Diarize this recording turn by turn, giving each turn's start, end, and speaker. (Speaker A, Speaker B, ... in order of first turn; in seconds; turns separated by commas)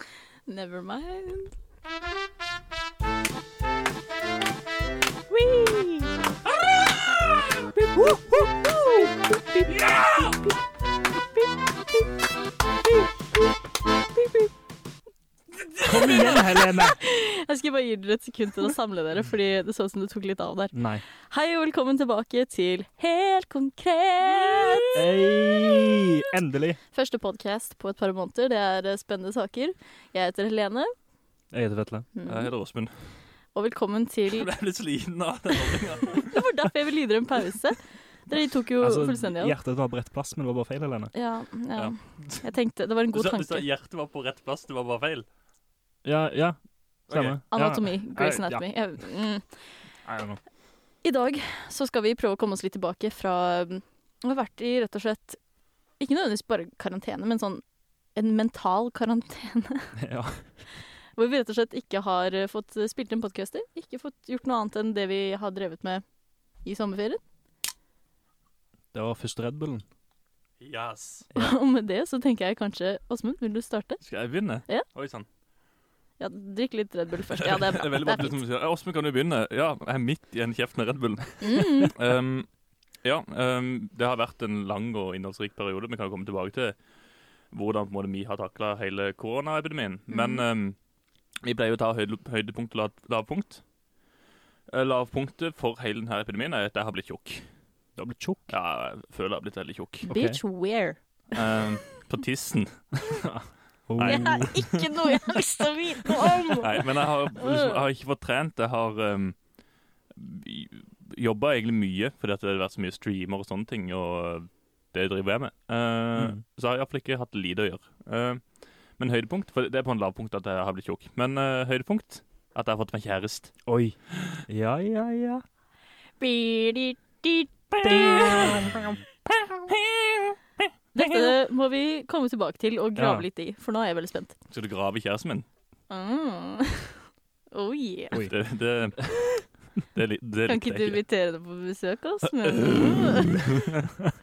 Speaker A: 0.5-1.5, Speaker A: 5.3-6.2, Speaker B: 6.6-7.3, Speaker A: 7.8-9.9, Speaker B: 9.7-10.4, Speaker A: 14.1-14.5, Speaker A: 15.8-25.0, Speaker B: 15.8-16.2, Speaker C: 15.8-17.0, Speaker C: 20.7-21.0, Speaker C: 24.9-26.8, Speaker A: 26.9-30.9, Speaker C: 31.5-32.1, Speaker A: 32.1-32.5, Speaker B: 32.3-33.1, Speaker A: 33.5-34.5, Speaker B: 34.3-36.4, Speaker A: 36.2-39.5, Speaker C: 38.8-41.1, Speaker A: 41.1-43.6, Speaker B: 41.8-42.5, Speaker B: 43.1-45.2, Speaker C: 46.0-48.6, Speaker B: 47.1-47.4, Speaker A: 47.5-49.8, Speaker C: 50.0-50.4, Speaker A: 51.0-55.4, Speaker A: 56.0-57.6, Speaker A: 58.1-60.0, Speaker C: 60.0-60.5, Speaker A: 61.1-66.0, Speaker A: 66.6-67.2, Speaker C: 68.9-69.8, Speaker B: 70.6-71.3, Speaker A: 71.3-74.0, Speaker B: 74.0-75.3, Speaker A: 76.2-78.3, Speaker B: 77.3-82.5, Speaker A: 81.4-81.9, Speaker B: 83.0-86.8, Speaker B: 87.5-90.8, Speaker A: 90.1-90.4, Speaker B: 91.4-93.6, Speaker B: 94.7-97.5, Speaker C: 98.0-98.4, Speaker B: 98.5-100.1, Speaker A: 100.1-101.4, Speaker C: 100.1-100.4, Speaker B: 101.3-103.3, Speaker C: 103.2-104.6, Speaker B: 104.0-104.8, Speaker A: 104.0-107.8, Speaker B: 106.6-109.4, Speaker B: 110.1-123.6, Speaker C: 123.7-125.4, Speaker A: 126.2-128.6, Speaker B: 127.8-131.3, Speaker C: 127.8-128.8, Speaker A: 130.9-134.4, Speaker C: 132.9-133.2, Speaker B: 134.5-135.4, Speaker A: 135.9-138.2, Speaker B: 138.2-139.3, Speaker B: 139.9-141.0, Speaker A: 140.5-143.5, Speaker B: 142.5-143.7